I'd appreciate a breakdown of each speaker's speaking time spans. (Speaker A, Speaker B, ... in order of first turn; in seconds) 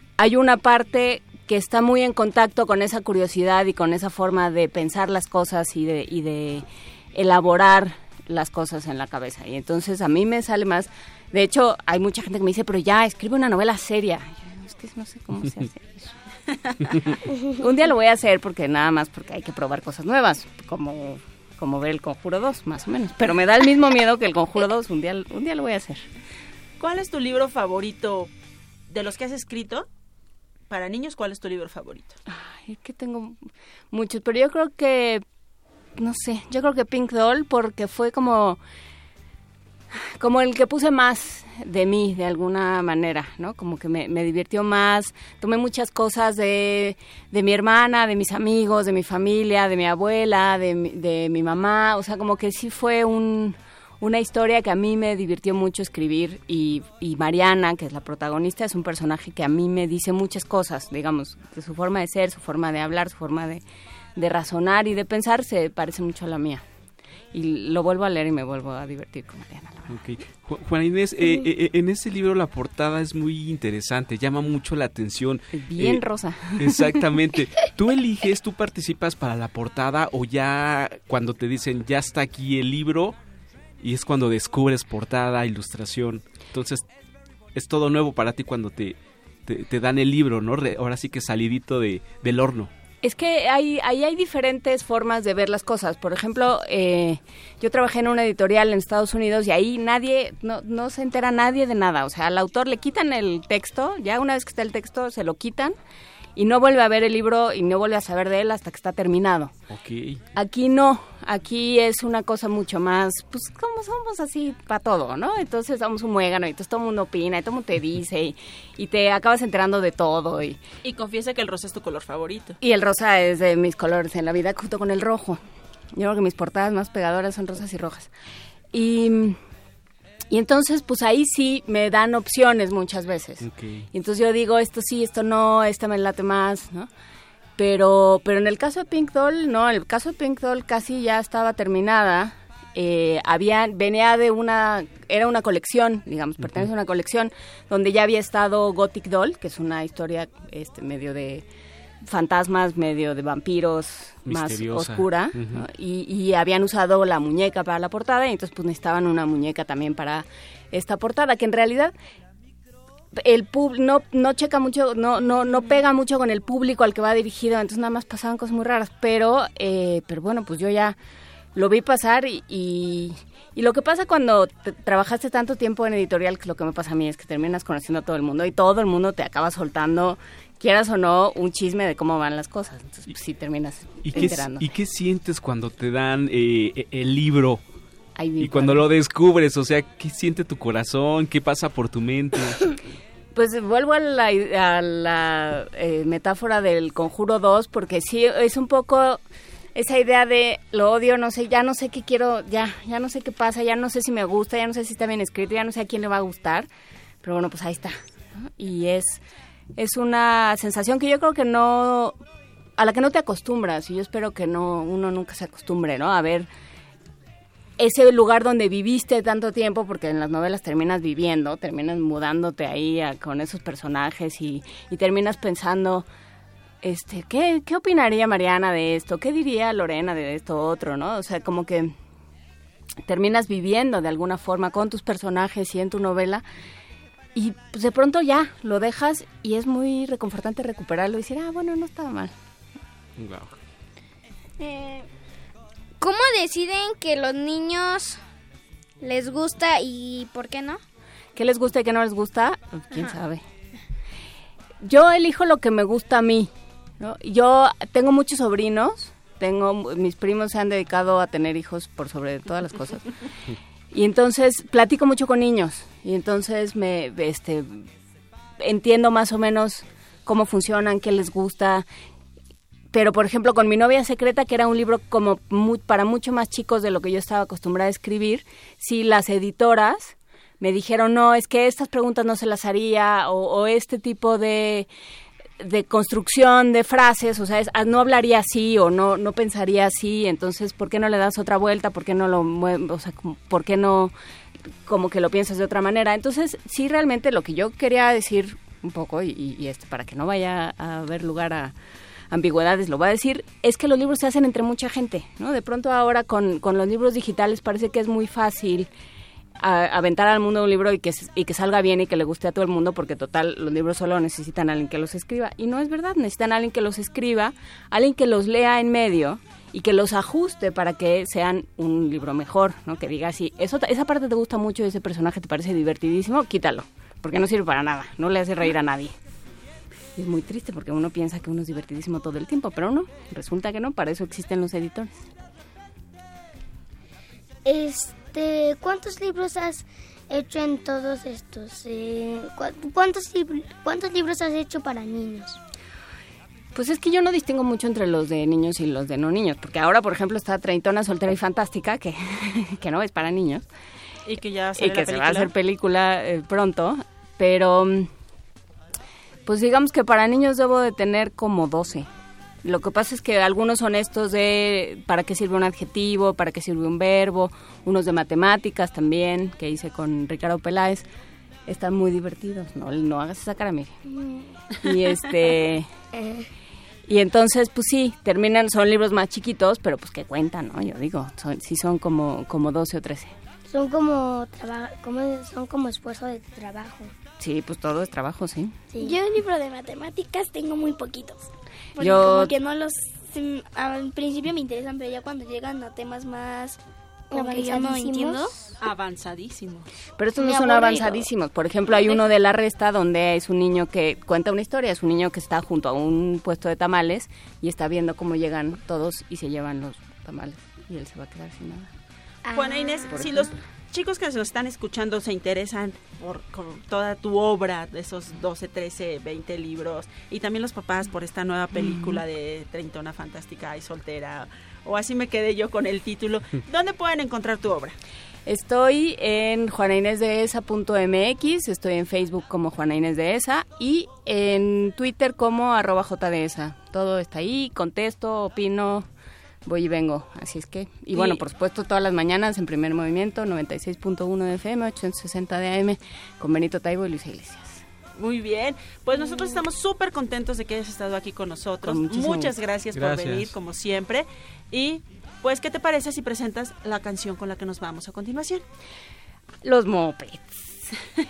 Speaker A: 0.2-16.1, 17.5-26.1, 32.3-35.2, 36.0-38.6, 39.9-63.6, 64.2-66.6, 67.3-70.0, 75.5-77.1, 93.0-105.8, 106.3-109.5, 110.3-120.6, 122.6-125.4, 125.9-128.1, 128.7-129.4, 130.3-136.9, 137.6-151.4, 152.0-161.9, 163.1-170.9, 171.5-184.7, 188.2-188.8, 193.3-199.2, 199.7-206.7, 207.2-209.2, 209.8-212.2, 212.8-216.5, 217.8-226.1, 226.8-231.9, 233.0-236.4, 237.3-242.3, 251.3-253.4, 254.8-263.1, 263.9-267.9, 268.6-271.9, 272.9-284.9, 285.6-294.1, 294.8-301.7, 302.3-308.9, 309.6-329.1, 330.1-335.1, 346.7-353.6, 354.8-358.1, 359.4-362.1, 362.6-371.0, 371.7-373.9, 374.8-375.9, 377.1-383.3, 387.4-388.8, 392.0-392.5, 400.2-411.9, 413.1-413.5, 421.7-422.2, 428.4-439.1, 439.6-447.8, 451.8-452.5, 459.6-460.9
Speaker B: 26.8-28.3, 28.9-29.9, 30.7-32.1, 120.8-122.6, 354.3-355.5, 398.8-399.9, 412.5-427.9, 441.1-441.4, 448.2-458.6
Speaker C: 69.9-76.0, 76.6-83.2, 83.8-86.8, 87.5-92.7, 109.7-110.2, 133.4-133.9, 154.2-155.6, 184.0-187.6, 188.4-192.7, 243.2-243.5, 452.9-453.5
Speaker D: 244.6-245.0, 389.0-398.6, 400.4-401.1
Speaker E: 246.0-248.2, 249.0-250.8
Speaker F: 337.6-345.6, 374.1-374.6, 376.1-376.5, 383.7-387.1, 388.9-389.2, 397.3-398.5, 412.4-413.3